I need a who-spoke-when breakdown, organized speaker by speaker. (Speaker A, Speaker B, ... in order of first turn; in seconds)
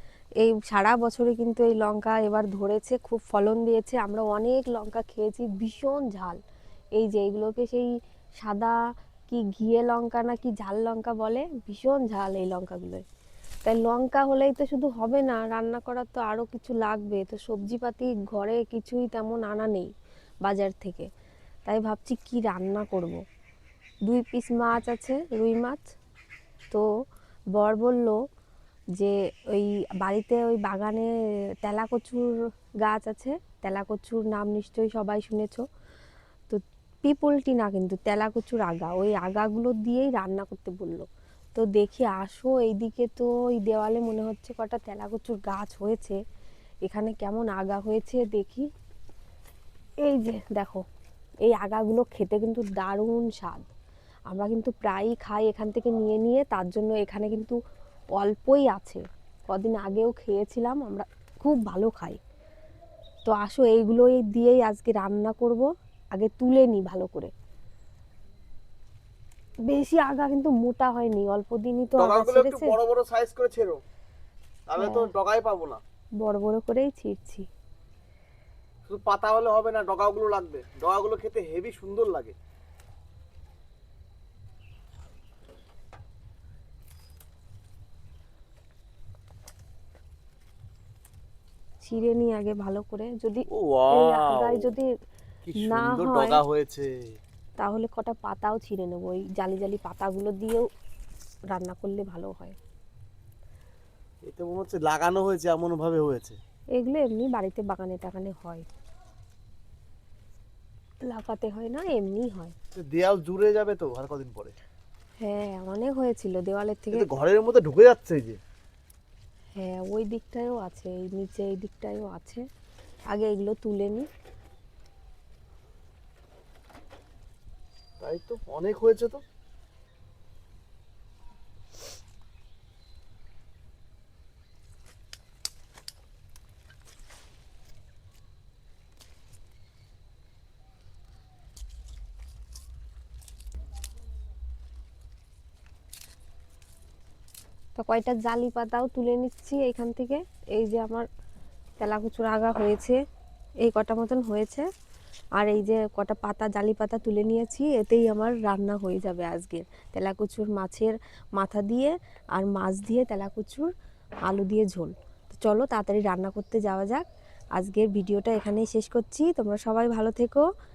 Speaker A: 0.4-6.4, 7.0-8.8, 9.3-13.0, 13.7-19.9, 20.4-21.1, 21.7-23.2, 24.1-25.8, 27.6-28.2, 29.0-31.1, 31.6-35.7, 36.5-46.2, 46.9-48.7, 50.0-50.8, 51.5-53.7, 54.3-57.6, 58.2-62.2, 63.3-67.3, 69.7-72.8, 74.8-75.1, 76.2-77.5, 91.8-94.9, 95.6-96.4, 97.6-100.7, 101.5-102.6, 106.8-108.7, 111.0-112.5, 115.2-117.1, 119.6-122.4, 123.1-124.1, 147.8-151.1, 151.8-153.0, 153.6-154.7, 155.4-163.7, 164.2-167.0, 167.6-170.5
Speaker B: 72.0-73.8, 74.7-75.8, 78.9-82.3, 93.5-94.7, 95.4-96.9, 104.2-106.4, 112.8-114.5, 116.9-118.4, 128.0-129.2